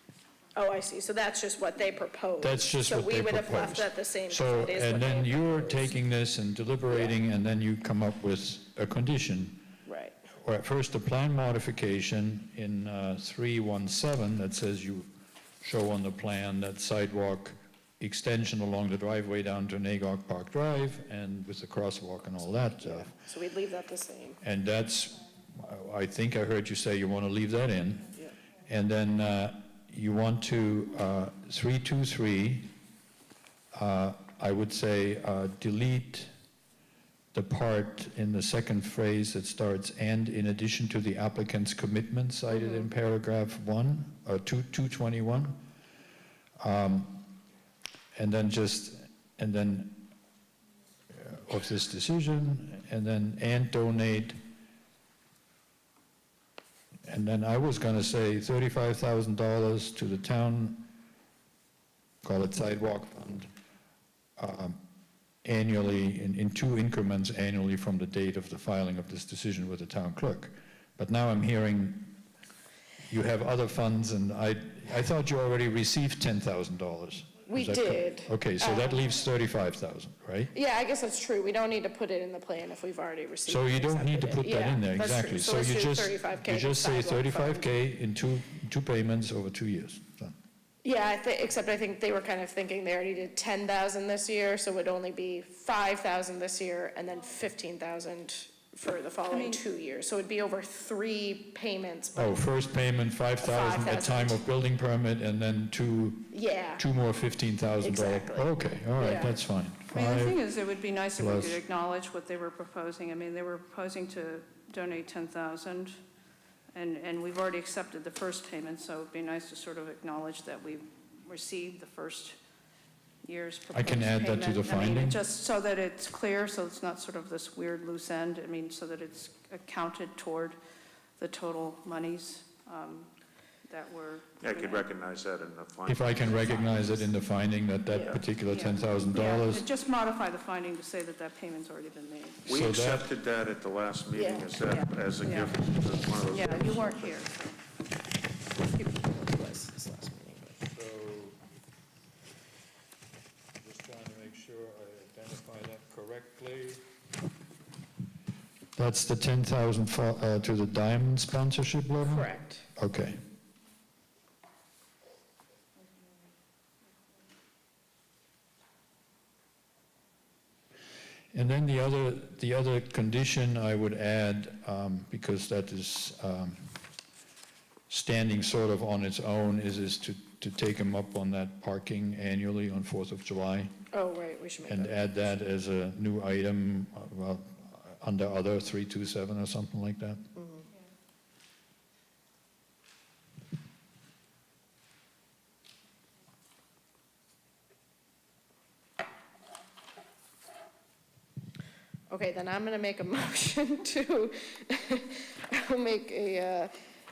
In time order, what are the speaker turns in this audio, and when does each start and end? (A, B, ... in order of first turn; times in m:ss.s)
0:00.6-0:05.9 A
0:02.4-0:09.7 B
0:09.8-0:10.2 A
0:10.4-0:15.1 B
0:15.6-0:23.2 B
0:22.8-0:24.4 A
0:24.4-0:28.1 B
0:28.7-0:32.7 B
0:33.7-0:36.3 B
0:37.3-0:45.6 B
0:42.5-0:42.8 A
0:46.6-0:47.3 B
0:48.2-0:50.1 B
0:51.1-0:54.4 B
0:57.1-1:00.9 B
1:02.2-1:03.5 B
1:04.4-1:04.8 B
1:05.4-1:12.1 B
1:13.1-1:20.5 B
1:17.5-1:19.1 A
1:20.5-1:27.7 A
1:23.5-1:30.3 B
1:30.8-1:42.4 A
1:39.3-1:39.6 C
1:42.1-1:50.4 B
1:43.4-1:44.4 A
1:46.3-1:46.8 A
1:47.8-1:49.4 A
1:49.9-1:56.0 C
1:51.1-1:51.6 B
1:56.7-2:02.4 C
2:03.2-2:10.6 C
2:03.7-2:05.2 B
2:11.2-2:13.1 C
2:13.6-2:14.9 C
2:14.4-2:17.1 D
2:15.8-2:19.7 B
2:18.5-2:22.5 C
2:22.4-2:27.2 D
2:22.5-2:23.1 B
2:24.1-2:24.5 A
2:24.6-2:25.6 C
2:26.2-2:27.6 C
2:28.6-2:30.6 A
2:30.6-2:31.4 B
2:33.6-2:36.8 B
2:38.8-2:43.2 B
2:42.0-2:42.7 A
2:51.3-2:56.8 B
2:57.9-3:03.7 B
3:03.9-3:05.0 A
3:04.7-3:10.3 B
3:10.4-3:10.7 A
3:22.1-3:26.7 A